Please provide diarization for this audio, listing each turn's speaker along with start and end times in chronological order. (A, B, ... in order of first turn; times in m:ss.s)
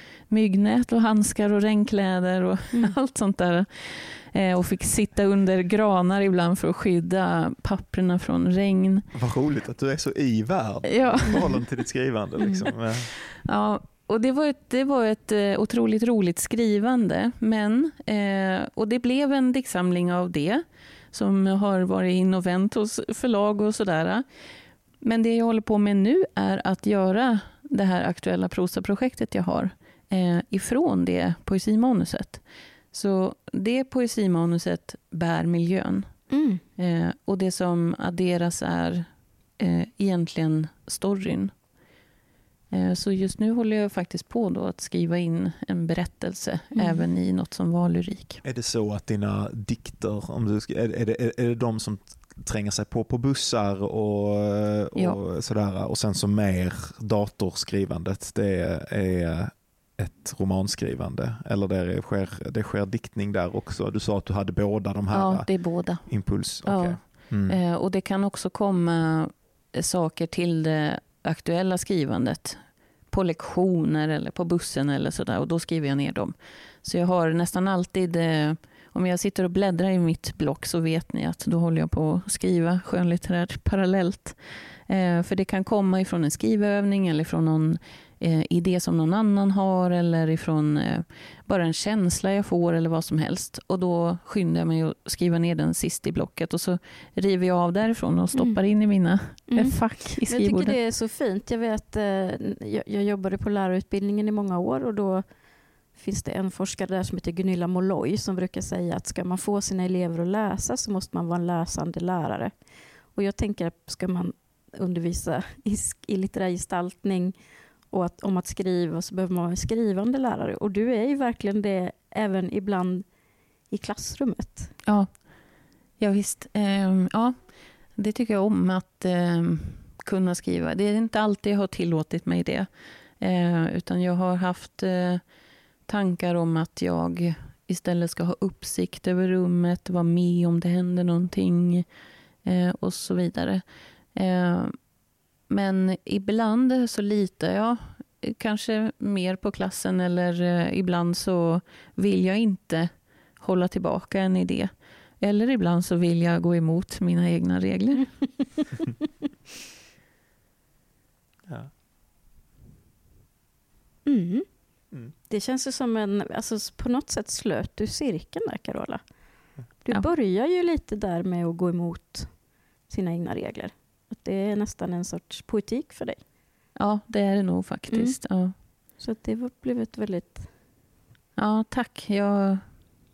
0:00.2-0:09.1 A
0:09.1-0:13.1 B
0:10.8-0:11.6 A
0:13.0-0:24.2 A
0:25.0-0:36.2 A
0:36.3-0:36.6 C
0:36.8-0:41.5 A
0:42.7-0:48.4 A
0:46.7-0:47.0 C
0:48.4-1:07.6 B
1:05.1-1:40.7 A
1:38.3-1:38.6 C
1:39.5-1:45.2 C
1:45.9-1:52.5 C
1:53.1-1:57.4 C
1:57.9-2:03.1 C
2:03.7-2:04.7 C
2:04.8-2:05.2 A
2:06.0-2:15.2 A
2:15.9-2:21.8 A
2:22.4-2:23.6 A
2:24.1-2:24.8 A
2:25.5-2:34.7 A
2:35.2-2:38.1 A
2:41.5-2:41.7 B
2:44.0-2:44.5 C
2:45.2-2:49.0 C
2:49.8-2:52.3 C
2:52.8-2:56.2 C
2:56.8-2:58.5 A
2:57.9-2:58.2 C
2:59.0-3:00.5 C
3:01.4-3:02.6 A